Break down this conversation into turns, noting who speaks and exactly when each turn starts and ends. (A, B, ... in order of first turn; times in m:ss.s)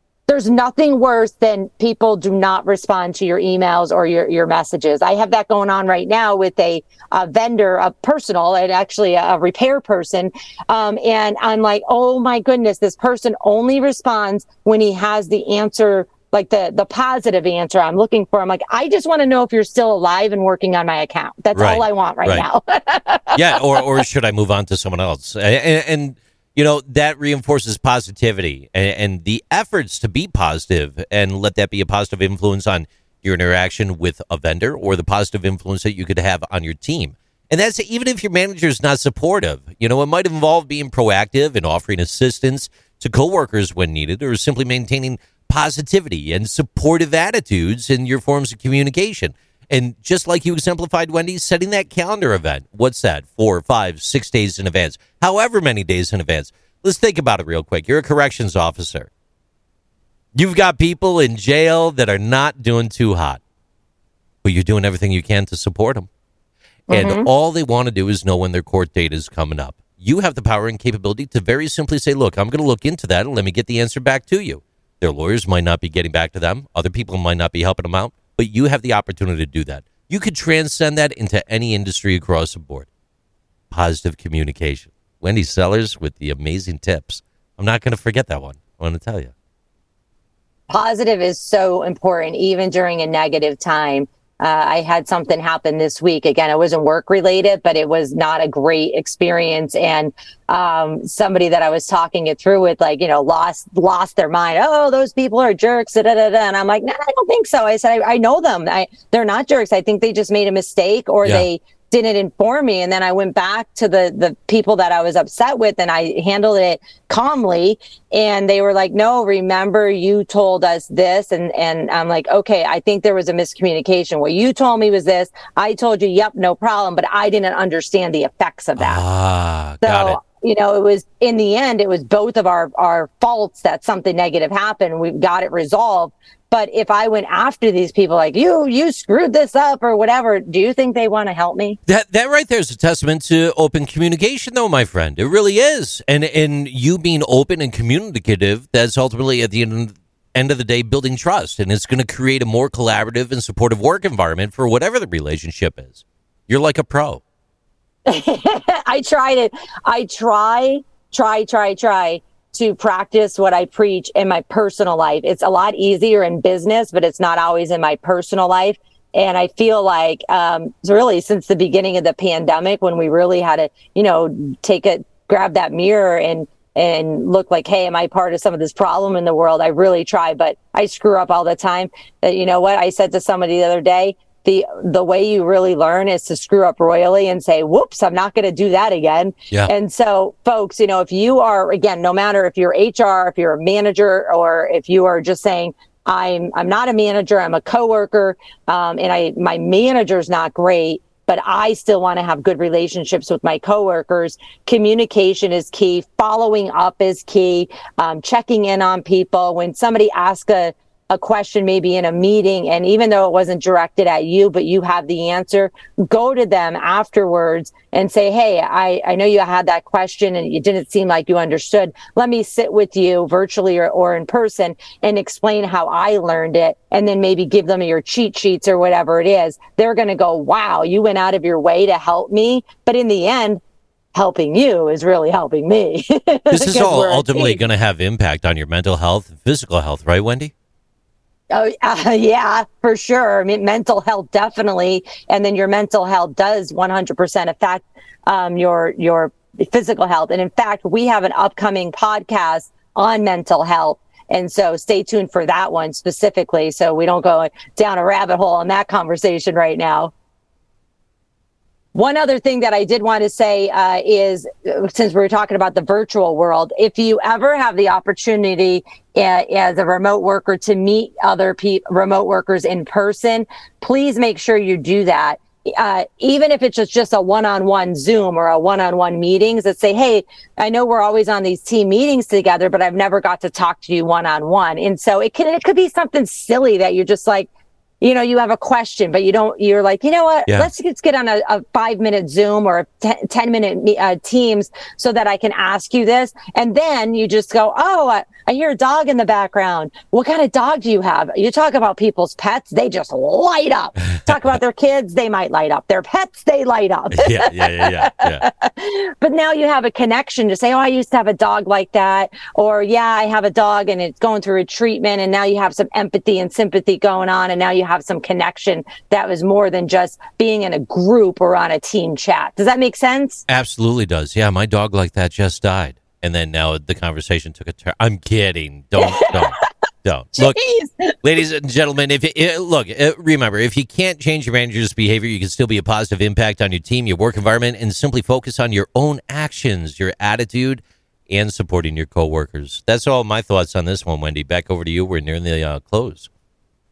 0:00.3-0:23.8 A
0:21.5-0:22.5 B
0:23.3-0:59.1 B
1:00.3-1:03.4 B
1:04.4-1:06.1 B
1:06.9-1:07.3 A
1:06.9-1:22.9 B
1:23.7-1:29.3 B
1:30.7-2:09.0 A
2:08.8-2:10.2 B
2:09.8-2:21.8 A
2:21.9-2:37.2 B
2:38.0-3:53.6 A
3:54.1-3:57.6 A
3:56.5-4:00.5 B
4:01.5-4:20.1 A
4:21.9-4:47.5 A
4:48.0-5:23.4 A
5:07.1-5:08.5 B
5:23.5-5:30.6 B
5:29.0-5:29.6 A
5:30.4-5:31.2 A
5:31.2-5:46.3 B